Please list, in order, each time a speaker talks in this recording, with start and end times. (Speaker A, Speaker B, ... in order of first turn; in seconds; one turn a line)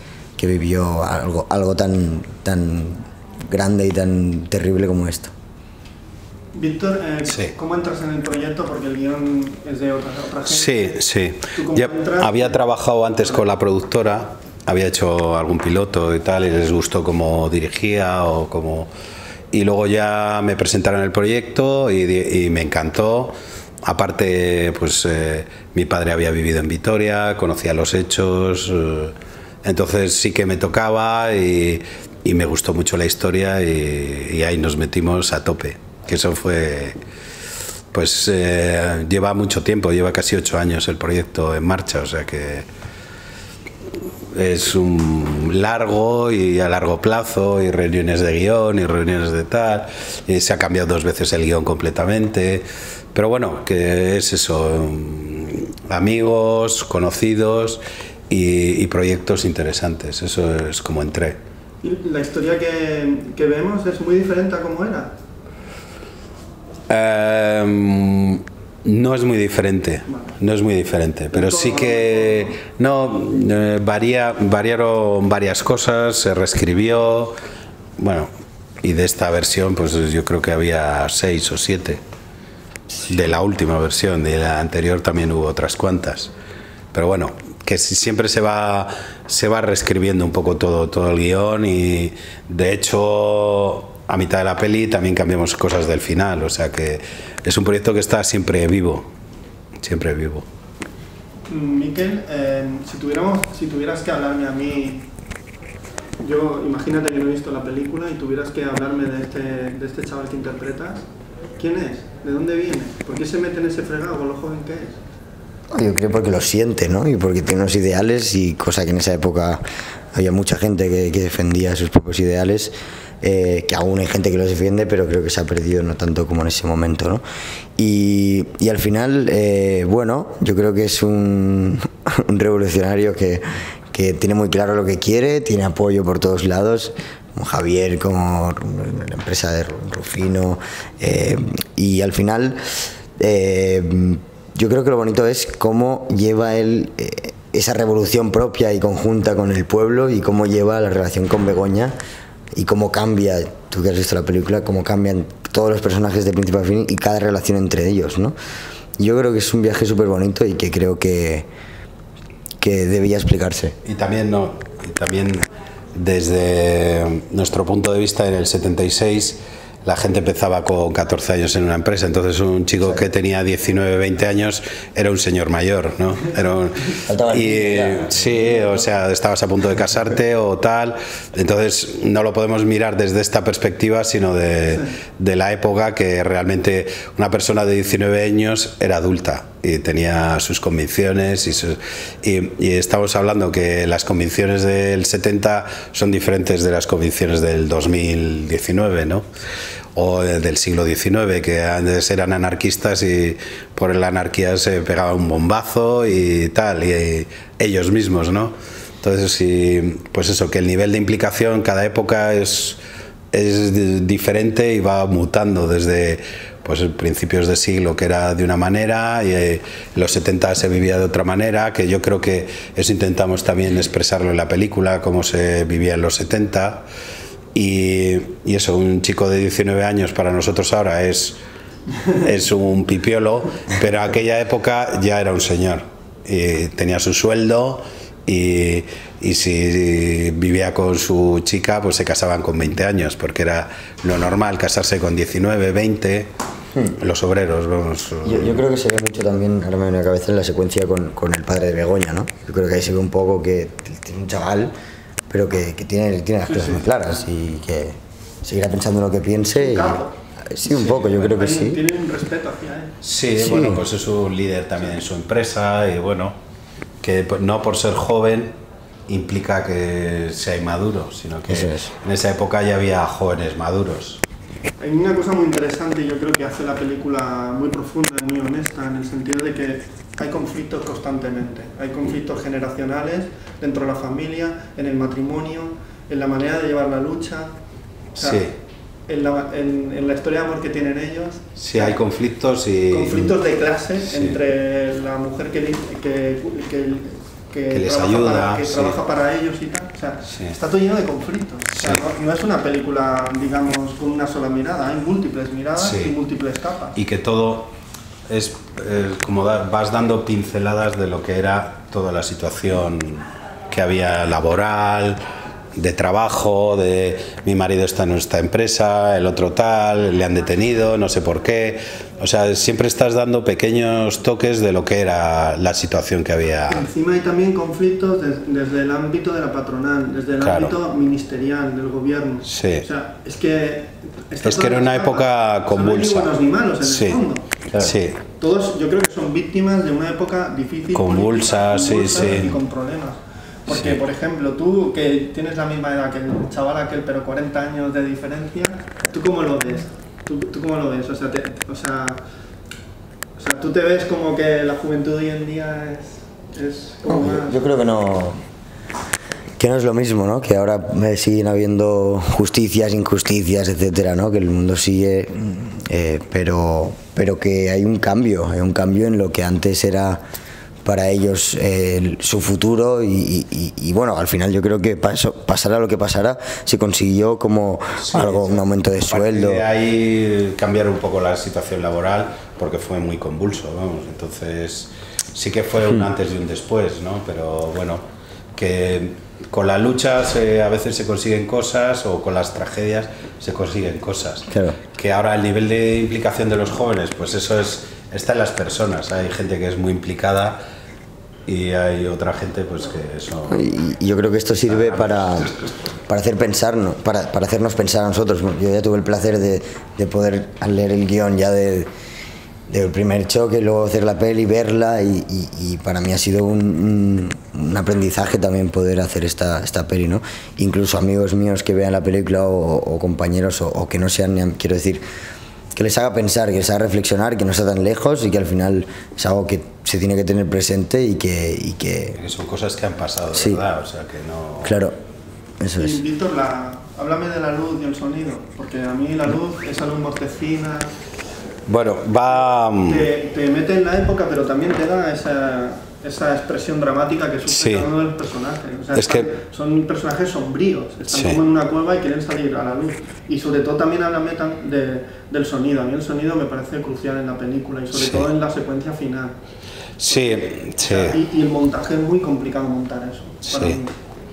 Speaker A: 0.4-5.3
Speaker B: 6.5-10.9
Speaker C: 10.5-18.9
Speaker B: 11.5-12.6
Speaker C: 19.5-23.3
Speaker C: 23.9-37.0
Speaker C: 37.9-42.6
Speaker C: 44.3-61.4
Speaker B: 61.8-65.1
Speaker C: 66.9-77.3
Speaker B: 70.1-70.4
Speaker B: 71.3-72.6
Speaker C: 78.0-78.3
Speaker C: 78.8-82.0
Speaker C: 83.0-86.3
Speaker C: 86.9-99.0
Speaker C: 99.8-100.5
Speaker B: 101.5-105.1
Speaker B: 106.2-111.0
Speaker B: 111.6-115.0
Speaker A: 115.7-119.6
Speaker A: 120.1-127.2
Speaker A: 127.8-142.6
Speaker A: 143.2-151.9
Speaker A: 152.5-158.3
Speaker A: 159.0-161.4
Speaker A: 162.6-163.8
Speaker C: 163.8-165.4
Speaker C: 165.9-199.2
Speaker A: 172.8-173.1
Speaker A: 177.1-178.9
Speaker C: 199.9-212.8
Speaker C: 213.3-226.8
Speaker C: 227.5-231.4
Speaker C: 232.1-246.3
Speaker C: 247.0-248.6
Speaker A: 248.2-254.7
Speaker A: 255.3-261.8
Speaker B: 256.5-256.9
Speaker B: 259.6-260.1
Speaker B: 260.8-262.9
Speaker C: 263.0-266.3
Speaker A: 263.4-263.8
Speaker C: 267.0-268.5
Speaker C: 269.1-274.2
Speaker A: 271.5-271.9
Speaker B: 274.8-287.5
Speaker B: 288.1-288.5
Speaker C: 288.2-288.5
Speaker B: 289.1-292.0
Speaker C: 291.6-293.4
Speaker B: 292.9-307.0
Speaker C: 294.0-294.4
Speaker C: 297.7-298.9
Speaker C: 300.3-300.6
Speaker C: 301.8-302.0
Speaker C: 305.8-306.1
Speaker C: 306.9-307.7
Speaker C: 308.3-315.2
Speaker C: 315.8-326.8
Speaker B: 326.7-337.5
Speaker C: 330.4-330.7
Speaker C: 332.5-332.9
Speaker C: 334.4-336.3
Speaker C: 336.8-337.2
Speaker C: 337.7-338.2
Speaker B: 338.3-352.2
Speaker C: 340.9-342.5
Speaker C: 343.7-344.0
Speaker B: 353.4-357.6
Speaker A: 357.1-358.4
Speaker A: 359.6-370.2
Speaker A: 370.8-379.6
Speaker C: 378.0-388.0
Speaker C: 388.5-400.6
Speaker A: 394.5-394.8
Speaker C: 401.5-403.6
Speaker A: 403.5-405.5
Speaker C: 404.7-405.5
Speaker A: 406.1-411.9
Speaker A: 412.7-425.0
Speaker A: 425.7-432.2
Speaker C: 432.2-434.8
Speaker A: 433.3-433.6
Speaker A: 434.6-434.9
Speaker A: 435.6-436.0
Speaker B: 435.8-440.9
Speaker C: 441.7-443.1
Speaker B: 442.3-459.3
Speaker C: 447.5-447.9
Speaker C: 448.9-449.3
Speaker C: 451.1-451.4
Speaker C: 457.9-458.2
Speaker C: 460.0-461.1
Speaker B: 460.1-463.9
Speaker C: 463.4-463.8